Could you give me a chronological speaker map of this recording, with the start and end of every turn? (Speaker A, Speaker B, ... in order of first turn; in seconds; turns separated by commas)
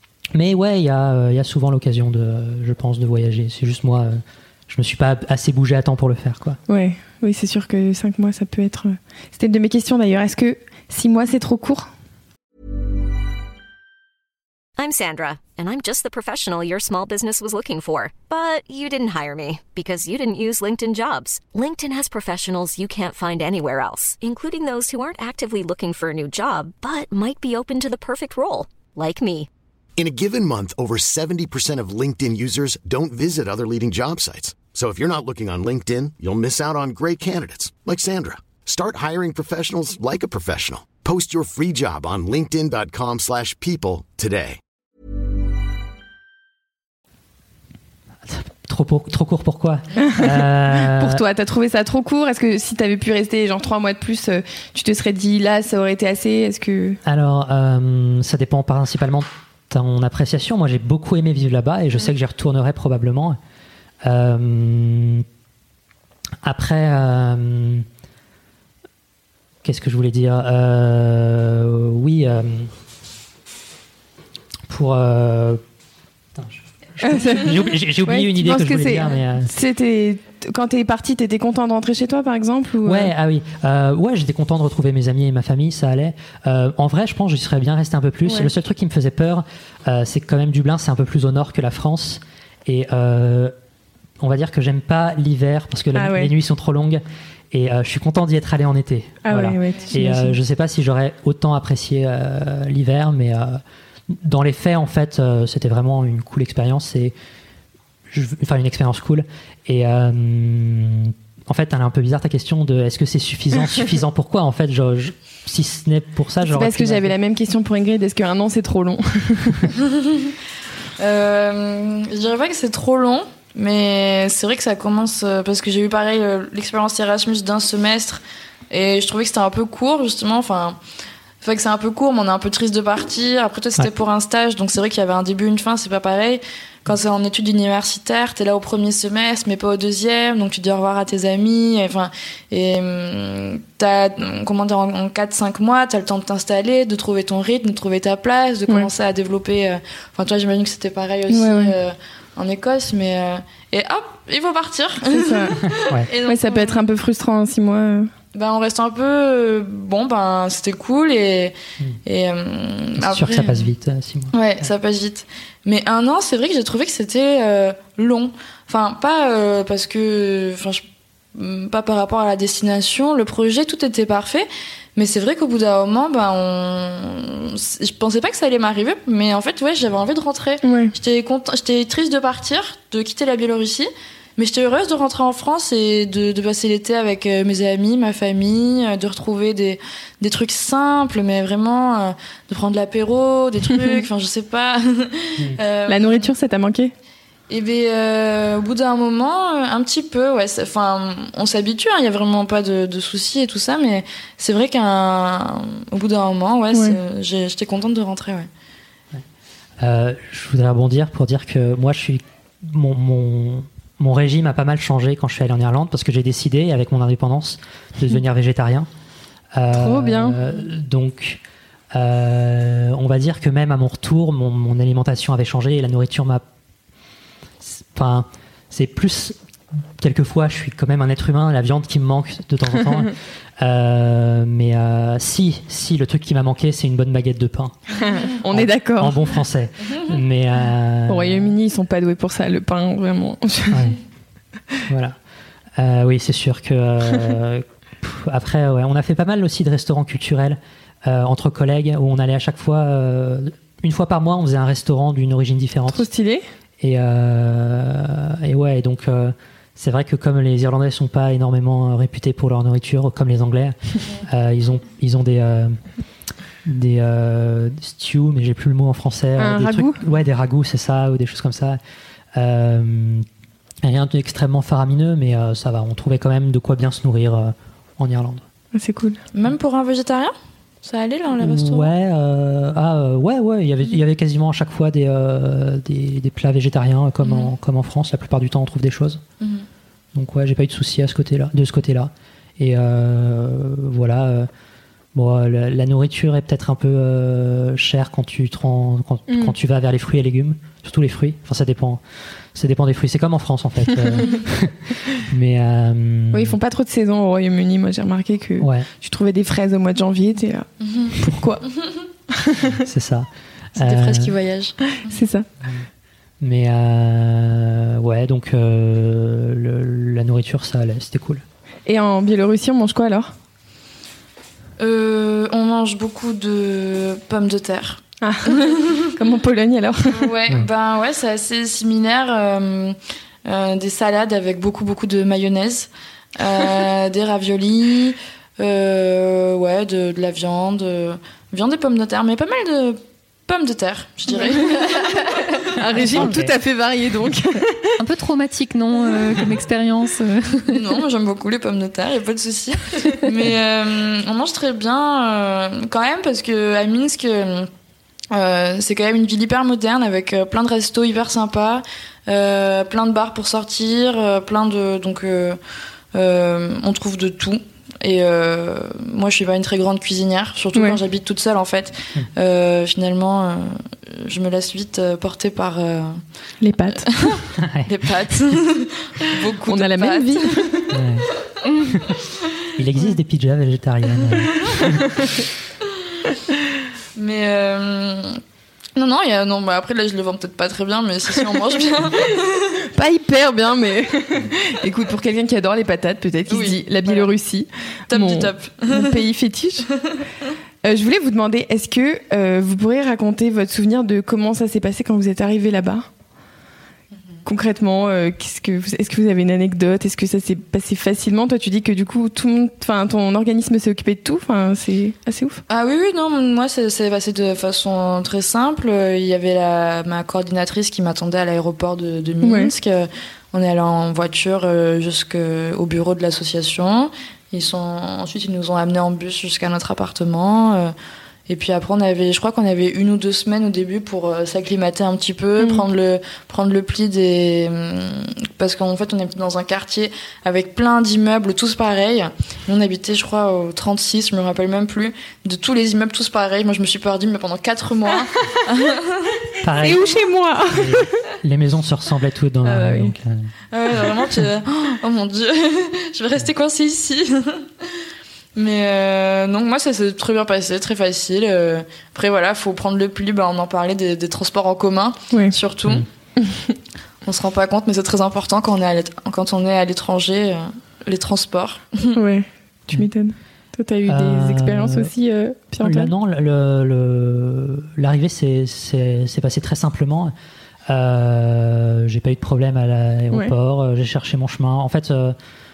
Speaker A: 0.3-6.6, Speaker B: 6.7-11.9, Speaker C: 14.8-29.5, Speaker D: 30.0-44.6, Speaker A: 48.2-51.2, Speaker B: 50.0-57.0, Speaker A: 57.0-63.4, Speaker A: 64.0-65.2, Speaker A: 66.4-67.8, Speaker A: 69.6-72.7, Speaker A: 74.7-75.6, Speaker A: 76.3-79.5, Speaker B: 77.0-83.1, Speaker A: 82.8-93.5, Speaker A: 94.2-107.1, Speaker B: 95.9-96.3, Speaker B: 99.2-100.3, Speaker A: 108.1-117.2, Speaker B: 116.5-119.7, Speaker E: 119.8-120.3, Speaker E: 121.0-130.8, Speaker E: 131.4-156.8, Speaker B: 151.3-151.7, Speaker B: 155.1-155.6, Speaker A: 155.8-156.1, Speaker B: 156.3-158.1, Speaker E: 158.3-161.5, Speaker E: 162.1-163.7, Speaker A: 163.0-164.6, Speaker E: 164.3-170.8, Speaker E: 171.3-196.3, Speaker B: 180.6-180.9, Speaker B: 195.9-196.9, Speaker E: 197.5-208.5, Speaker B: 206.7-207.0, Speaker A: 209.8-218.9, Speaker A: 219.5-221.4, Speaker B: 219.7-220.4, Speaker A: 221.9-226.4, Speaker A: 227.6-229.4, Speaker A: 230.0-237.8, Speaker B: 238.0-239.2, Speaker A: 238.5-241.5, Speaker B: 241.1-243.9, Speaker A: 243.7-244.0, Speaker A: 244.9-245.2, Speaker A: 245.8-256.1, Speaker B: 255.9-256.4, Speaker A: 256.8-265.8, Speaker A: 266.6-271.8, Speaker B: 269.4-270.0, Speaker A: 272.3-273.2, Speaker A: 273.8-278.4, Speaker B: 278.7-279.2, Speaker E: 279.3-281.9, Speaker A: 281.4-289.2, Speaker E: 287.2-287.5, Speaker A: 290.1-294.5, Speaker A: 295.1-302.0, Speaker B: 299.3-299.5, Speaker A: 302.5-306.6, Speaker B: 306.3-311.6, Speaker A: 308.6-308.9, Speaker E: 310.8-311.1, Speaker A: 311.2-311.5, Speaker B: 312.3-312.8, Speaker A: 312.7-314.4, Speaker E: 313.8-315.2, Speaker B: 315.1-315.4, Speaker A: 316.4-321.4, Speaker B: 321.9-323.3, Speaker E: 324.8-329.1, Speaker B: 328.2-328.6, Speaker B: 329.1-330.3, Speaker E: 330.1-345.1, Speaker B: 345.8-347.9, Speaker A: 346.0-346.6, Speaker E: 346.0-346.3, Speaker F: 348.0-350.8, Speaker E: 350.7-357.7, Speaker E: 358.3-365.6, Speaker E: 366.1-376.2, Speaker B: 370.7-371.0, Speaker B: 376.6-377.4, Speaker E: 377.1-380.7, Speaker A: 377.6-377.9, Speaker B: 379.7-380.9, Speaker A: 380.9-381.2, Speaker A: 381.9-382.2, Speaker A: 382.8-385.2, Speaker E: 387.1-388.4, Speaker E: 388.9-392.7, Speaker B: 392.9-399.9, Speaker E: 396.5-397.3, Speaker E: 398.1-399.2, Speaker B: 400.8-406.1, Speaker B: 407.4-415.6, Speaker E: 415.7-430.9, Speaker B: 422.4-422.7, Speaker E: 431.5-449.4, Speaker B: 435.6-435.8, Speaker A: 449.6-450.0, Speaker B: 449.8-451.1, Speaker A: 450.7-454.4, Speaker B: 452.6-453.1, Speaker E: 453.7-457.7, Speaker E: 458.6-466.1, Speaker B: 466.4-466.8, Speaker E: 467.2-472.1, Speaker B: 472.1-476.1, Speaker A: 474.1-475.1, Speaker A: 475.8-480.3, Speaker A: 480.9-485.4